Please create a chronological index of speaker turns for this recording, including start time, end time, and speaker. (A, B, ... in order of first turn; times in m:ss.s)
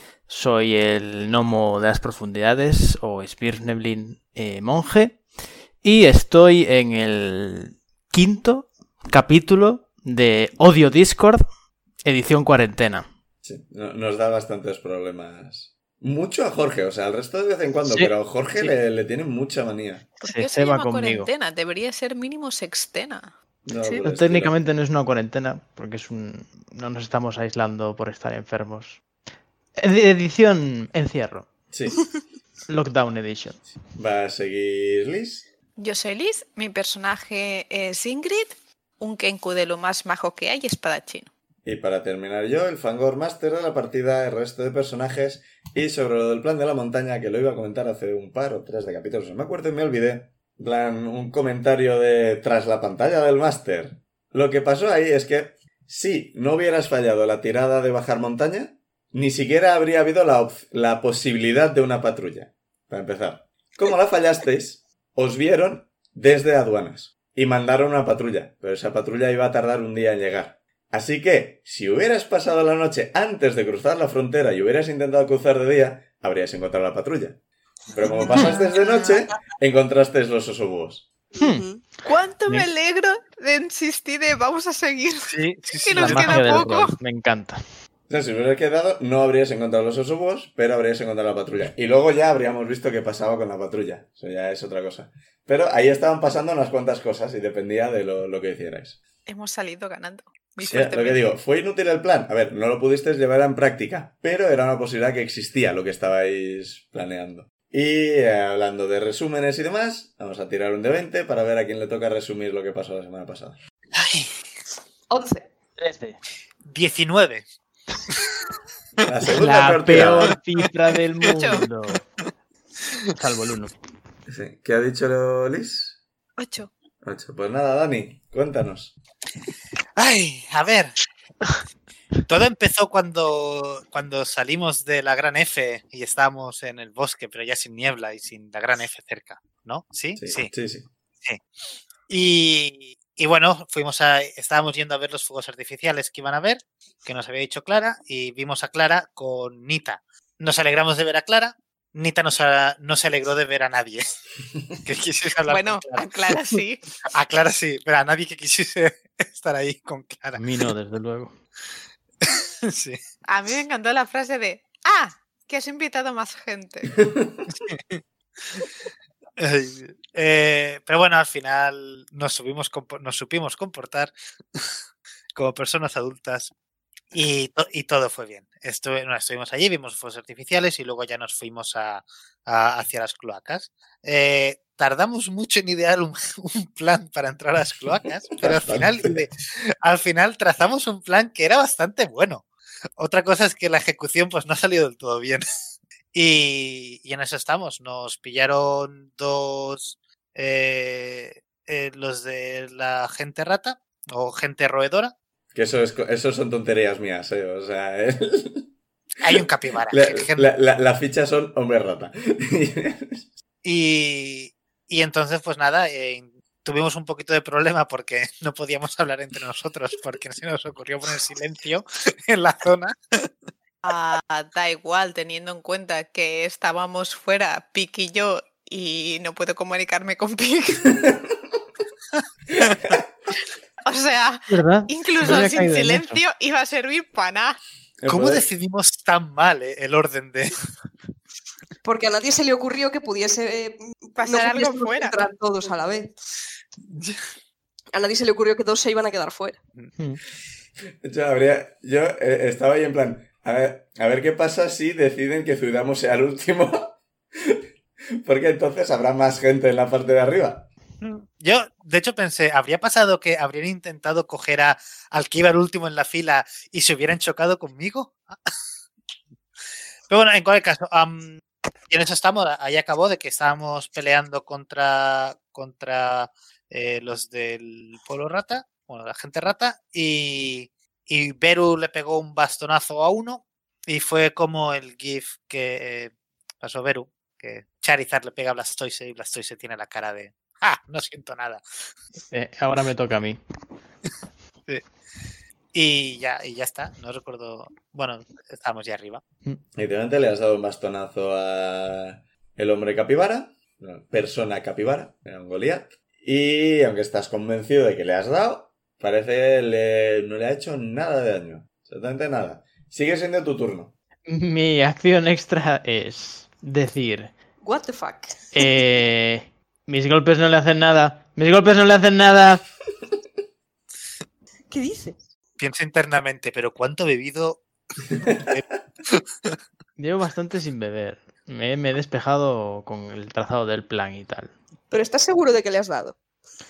0:00.3-0:05.2 A
0:05.8-0:11.5 A
0:12.0-0:13.1 A
0:13.4-0:20.0 B
0:17.9-0:18.7 A
0:20.2-0:23.3 C
0:20.2-0:21.3 A
0:23.6-0:24.5 B
0:24.0-0:29.0 A
0:29.8-0:31.5 A
0:31.7-0:32.0 B
0:32.7-0:33.6 A
0:33.9-0:35.4 B
0:35.8-0:41.3 C
0:41.6-1:17.4 B
1:17.9-1:21.1 B
1:18.1-1:19.1 D
1:21.3-1:21.9 D
1:21.4-1:21.6 A
1:22.0-1:27.0 C
1:25.3-1:26.6 E
1:26.0-1:27.6 A
1:28.1-1:39.0 B
1:39.3-1:41.2 C
1:40.7-1:53.6 B
1:53.9-1:54.3 E
1:55.1-1:55.4 D
1:55.8-1:56.2 A
1:56.6-1:57.5 E
1:58.1-1:58.5 E
1:59.0-2:00.4 B
1:59.3-2:02.0 A
2:01.2-2:01.6 C
2:03.1-2:03.7 A
2:04.3-2:06.0 B
2:06.4-2:06.7 C
2:07.0-2:08.9 B
2:10.0-2:11.0 E
2:12.3-2:20.5 E
2:20.2-2:20.9 B
2:22.1-2:34.2 E
2:34.8-2:40.4 E
2:35.5-2:36.8 C
2:40.4-2:41.4 A
2:42.2-2:43.0 E
2:43.3-2:46.9 C
2:47.0-2:47.4 B
2:47.5-2:48.7 E
2:49.4-2:54.7 E
2:55.4-2:56.5 E
2:57.1-3:12.4 E
3:08.4-3:09.2 B
3:13.0-3:15.4 E
3:16.1-3:25.1 E
3:25.5-3:28.7 B
3:29.2-3:30.5 E
3:29.9-3:33.3 B
3:33.6-3:43.3 E
3:43.8-3:51.0 C
3:52.6-3:53.0 E
3:53.8-3:57.6 C
3:54.5-3:56.2 A
3:58.0-3:58.4 B
3:58.1-4:00.5 E
4:01.8-4:06.1 D
4:04.2-4:05.3 C
4:06.9-4:07.2 E
4:07.9-4:09.6 D
4:11.0-4:17.6 B
4:18.2-4:20.7 B
4:21.0-4:28.4 E
4:30.1-4:51.6 E
4:52.3-4:53.4 A
4:55.7-4:59.2 E
4:59.8-5:13.9 B
5:14.3-5:17.3 A
5:17.6-5:18.6 D
5:18.5-5:22.6 A
5:24.7-5:25.2 D
5:25.6-5:29.6 E
5:30.0-5:34.5 A
5:34.9-5:36.2 D